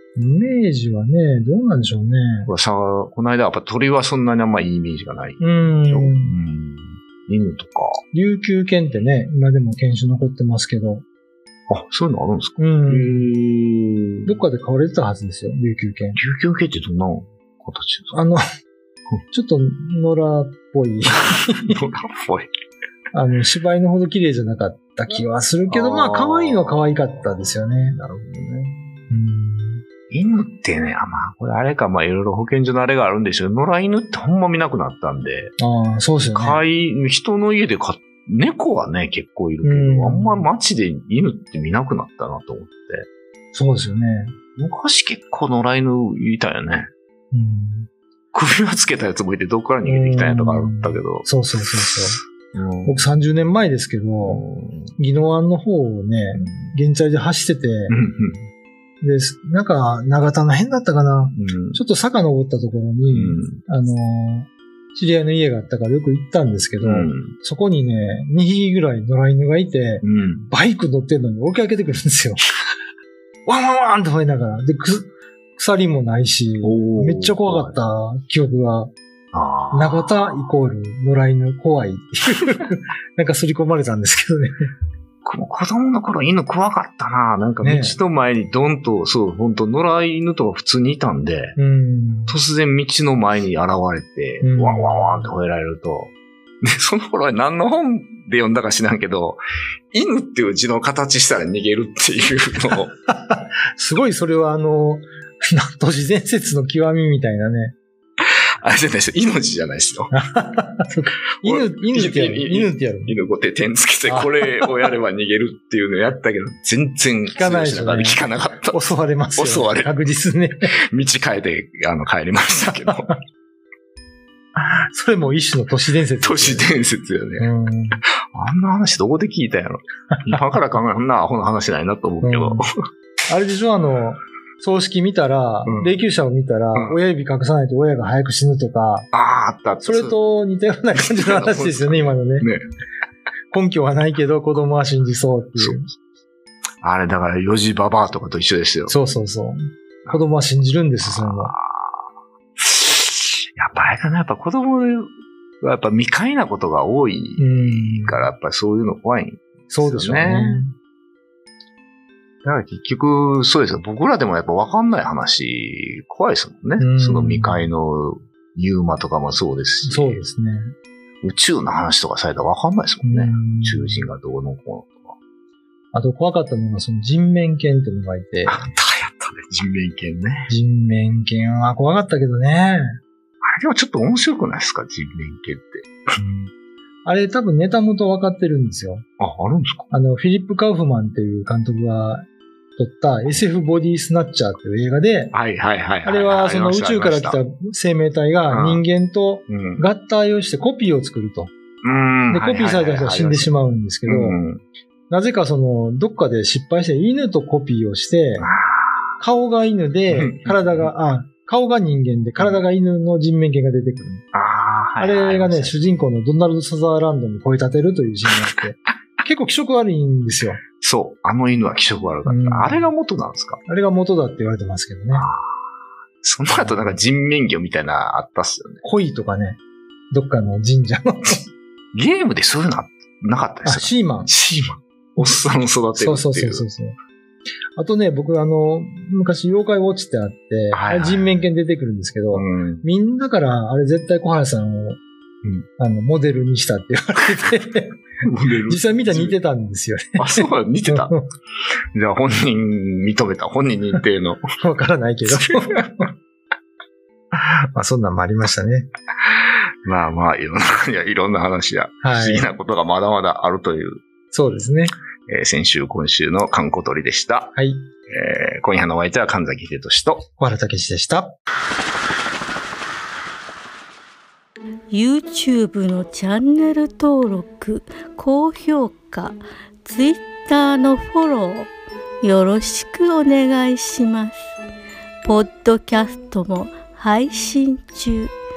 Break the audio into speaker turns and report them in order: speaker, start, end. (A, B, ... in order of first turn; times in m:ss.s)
0:00.2-0:02.5 A
0:02.5-0:08.0 B
0:05.4-0:06.4 A
0:08.1-0:11.0 A
0:11.7-0:14.4 B
0:12.6-0:13.3 A
0:14.3-0:16.2 A
0:16.2-0:18.2 B
0:18.1-0:18.4 A
0:19.3-0:21.8 A
0:21.7-0:22.5 B
0:23.1-0:28.0 A
0:25.7-0:29.1 B
0:29.1-0:29.8 A
0:30.1-0:35.5 B
0:35.6-0:36.6 A
0:36.2-0:43.1 B
0:39.6-0:40.5 A
0:43.5-0:44.3 A
0:44.6-0:46.9 B
0:47.3-0:47.9 A
0:48.3-0:51.3 B
0:49.8-0:52.2 A
0:52.5-0:53.0 B
0:52.8-0:54.4 A
0:54.2-0:55.0 B
0:55.0-0:58.0 A
0:56.3-0:56.7 B
0:57.9-0:58.5 B
0:59.0-1:12.4 A
1:01.4-1:01.8 B
1:03.1-1:03.6 B
1:06.8-1:07.4 B
1:10.0-1:10.5 B
1:13.5-1:18.9 A
1:16.6-1:17.7 B
1:19.3-1:20.5 B
1:19.7-1:24.6 A
1:25.2-1:31.6 B
1:27.6-1:28.0 A
1:31.6-1:32.4 A
1:32.3-1:36.1 B
1:34.4-1:35.3 A
1:36.6-1:39.4 B
1:39.9-1:42.9 B
1:43.1-1:47.8 A
1:48.2-1:50.1 B
1:50.1-1:53.2 A
1:51.4-1:59.9 B
1:54.1-1:54.9 A
1:57.3-2:00.7 A
2:00.9-2:03.1 B
2:04.6-2:06.7 A
2:06.2-2:07.5 B
2:07.4-2:08.0 A
2:08.3-2:12.7 B
2:12.2-2:12.7 A
2:13.3-2:19.1 A
2:15.6-2:16.0 B
2:19.1-2:20.2 B
2:19.8-2:22.5 A
2:21.0-2:22.6 B
2:23.5-2:25.9 A
2:25.6-2:25.9 B
2:26.8-2:28.9 B
2:28.9-2:31.6 A
2:31.1-2:32.0 B
2:32.6-2:40.7 B
2:37.4-2:38.3 A
2:39.7-2:40.7 A
2:42.4-2:50.2 B
2:46.8-2:47.7 A
2:49.8-2:50.7 A
2:51.2-2:55.2 B
2:53.0-2:54.1 A
2:55.9-2:58.7 A
2:58.5-3:00.5 B
3:00.5-3:03.0 A
3:03.4-3:05.9 B
3:06.2-3:06.5 A
3:07.0-3:09.1 A
3:09.2-3:09.9 B
3:09.9-3:12.2 A
3:12.8-3:15.3 A
3:15.3-3:17.4 B
3:16.0-3:21.5 A
3:18.5-3:18.8 B
3:19.5-3:19.9 B
3:21.8-3:24.6 B
3:22.3-3:24.4 A
3:25.1-3:28.5 A
3:28.4-3:29.2 B
3:29.2-3:34.2 A
3:30.1-3:30.9 B
3:34.3-3:35.8 B
3:35.0-3:40.6 A
3:40.8-3:43.6 B
3:42.2-3:42.9 A
3:43.7-3:45.3 A
3:45.1-3:45.5 B
3:46.2-3:48.8 B
3:46.6-3:47.0 A
3:48.8-3:49.6 A
3:50.1-3:51.5 A
3:51.9-3:56.7 B
3:53.6-3:54.3 A
3:55.9-3:57.0 A
3:57.8-4:05.0 A
4:00.7-4:01.4 B
4:02.3-4:02.9 B
4:05.8-4:08.0 A
4:08.2-4:09.4 B
4:08.7-4:11.3 A
4:10.2-4:11.2 B
4:11.9-4:14.4 B
4:14.6-4:16.1 A
4:15.3-4:15.8 B
4:17.3-4:18.9 A
4:19.8-4:24.0 B
4:22.0-4:22.5 A
4:24.3-4:24.9 A
4:25.3-4:27.6 B
4:27.6-4:27.9 A
4:28.1-4:30.3 B
4:30.4-4:31.4 A
4:34.9-4:41.7 C
4:42.2-4:44.5 C
4:45.2-4:48.3 C